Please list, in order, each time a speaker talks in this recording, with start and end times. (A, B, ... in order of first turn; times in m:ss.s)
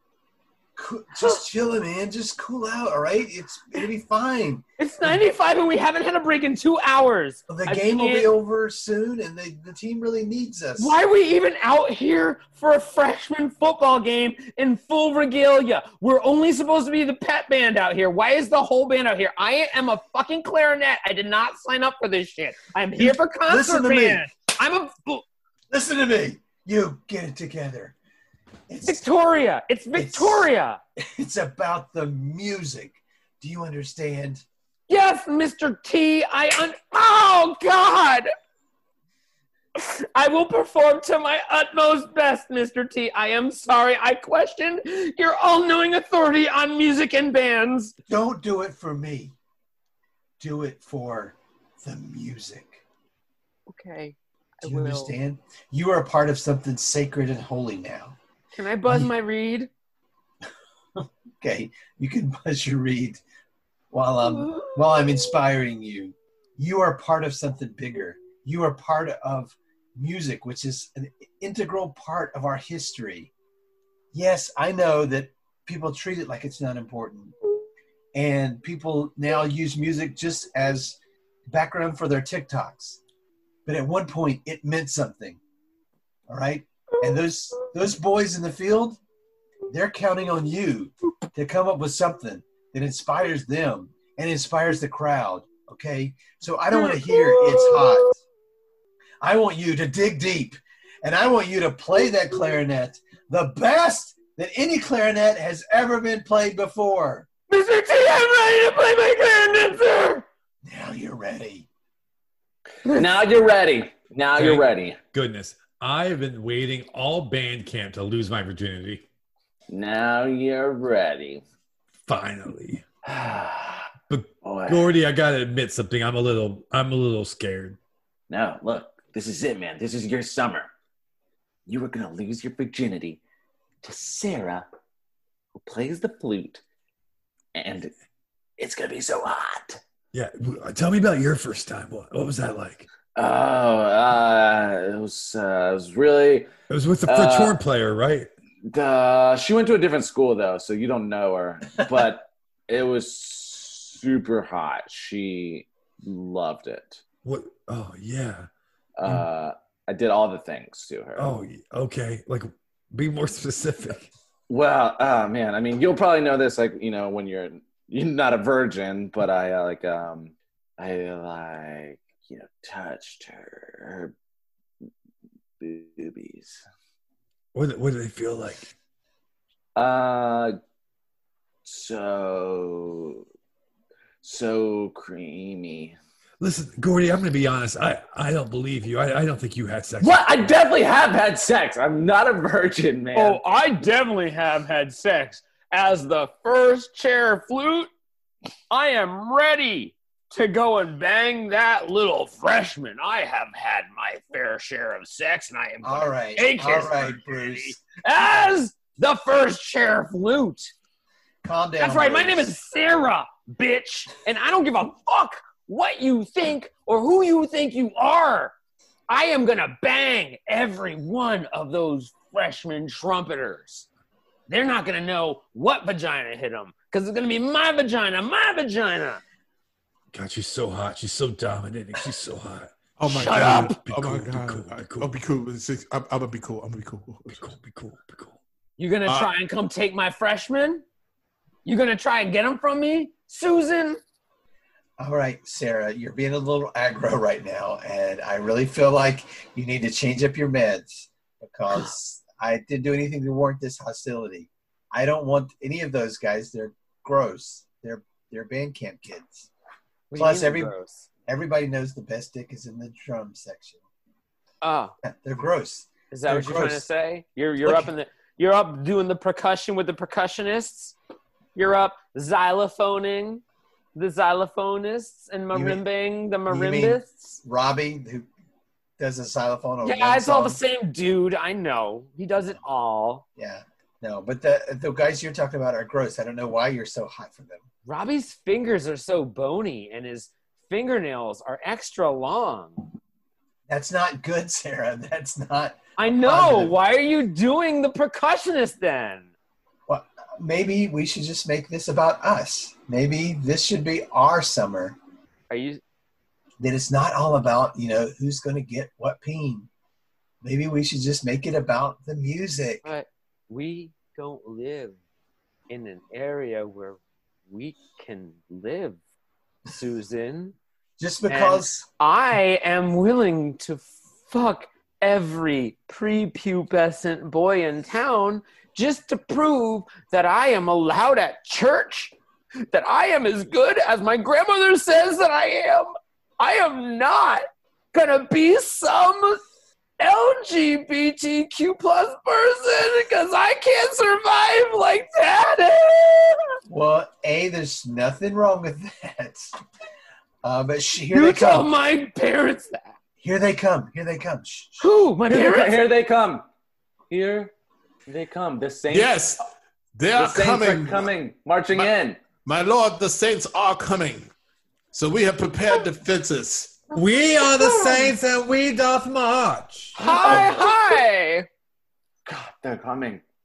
0:00.8-0:04.6 A
0:04.8-0:08.3 B
0:07.5-0:11.0 A
0:10.8-0:25.2 B
0:23.0-0:24.2 A
0:25.7-0:27.9 A
0:28.7-0:29.0 A
0:28.8-0:30.8 B
0:29.9-0:34.4 A
0:34.9-0:38.3 B
0:39.7-0:47.9 B
0:48.1-0:49.3 A
0:50.4-0:52.8 A
0:53.7-0:55.2 B
0:54.6-0:58.2 A
0:58.5-0:59.7 B
1:01.4-1:03.2 A
1:03.9-1:13.3 A
1:04.4-1:05.1 B
1:14.1-1:17.4 A
1:18.1-1:21.0 A
1:21.5-1:23.0 A
1:23.6-1:25.4 A
1:26.3-1:29.0 A
1:29.7-1:38.2 A
1:36.9-1:38.0 B
1:39.2-1:47.3 A
1:47.5-1:50.2 B
1:50.6-1:51.7 A
1:52.8-1:55.0 C
1:54.3-1:59.0 D
1:59.7-2:01.4 C
2:02.1-2:02.8 D
2:03.0-2:03.9 C
2:04.1-2:07.8 D
2:04.4-2:04.9 C
2:08.3-2:10.7 C
2:11.7-2:13.2 C
2:13.8-2:14.6 C
2:15.6-2:16.6 C
2:17.5-2:17.9 C
2:18.6-2:19.8 C
2:20.1-2:22.9 D
2:23.2-2:26.5 C
2:26.7-2:28.3 D
2:27.0-2:27.6 C
2:28.7-2:37.0 C
2:37.2-2:38.5 D
2:39.0-2:41.3 C
2:41.2-2:44.1 D
2:44.5-2:54.1 C
2:55.6-2:56.6 C
2:57.5-2:58.7 D
2:59.8-3:00.5 C
3:01.6-3:03.2 C
3:04.2-3:06.0 C
3:06.4-3:10.4 D
3:10.0-3:13.4 C
3:13.1-3:17.9 B
3:18.7-3:30.7 B
3:25.8-3:27.8 A
3:31.4-3:32.5 A
3:31.8-3:38.5 B
3:39.1-3:43.8 B
3:44.5-3:49.2 B
3:50.1-3:55.1 D
3:53.0-3:57.4 E
3:53.1-3:53.8 B
3:57.3-3:58.4 D
3:58.8-4:00.8 B
3:59.0-3:59.3 E
4:01.6-4:04.0 B
4:05.0-4:19.5 A
4:20.1-4:21.0 B
4:20.2-4:20.7 A
4:21.2-4:23.8 A
4:24.6-4:24.9 B
4:25.1-4:26.8 A
4:26.1-4:31.0 B
4:27.6-4:27.9 A
4:31.6-4:33.4 B
4:33.9-4:37.4 B
4:35.5-4:35.8 A
4:36.5-4:38.3 A
4:39.0-4:40.6 A
4:39.8-4:43.2 B
4:43.4-4:47.6 A
4:47.8-4:52.8 B
4:53.7-4:56.7 A
4:56.0-4:59.3 B
4:59.9-5:05.0 A
5:05.5-5:05.8 B
5:06.6-5:09.7 A
5:10.4-5:12.8 A
5:12.8-5:15.0 B
5:15.7-5:19.0 B
5:19.7-5:20.6 B
5:21.0-5:21.8 A
5:21.3-5:32.1 B
5:32.7-5:39.4 B
5:40.0-5:46.5 B
5:46.7-5:49.5 A
5:50.4-5:51.7 A
5:51.1-5:52.9 B
5:53.2-5:54.8 A
5:54.8-5:55.8 B
5:55.3-5:56.5 C
5:57.1-5:57.5 C
5:58.1-5:59.3 C
5:58.9-5:59.4 E
6:00.0-6:01.1 E
6:00.1-6:02.2 C
6:02.4-6:04.3 E
6:04.9-6:06.8 E
6:06.9-6:10.0 D
6:10.0-6:11.5 B
6:10.0-6:10.6 C
6:12.2-6:13.2 C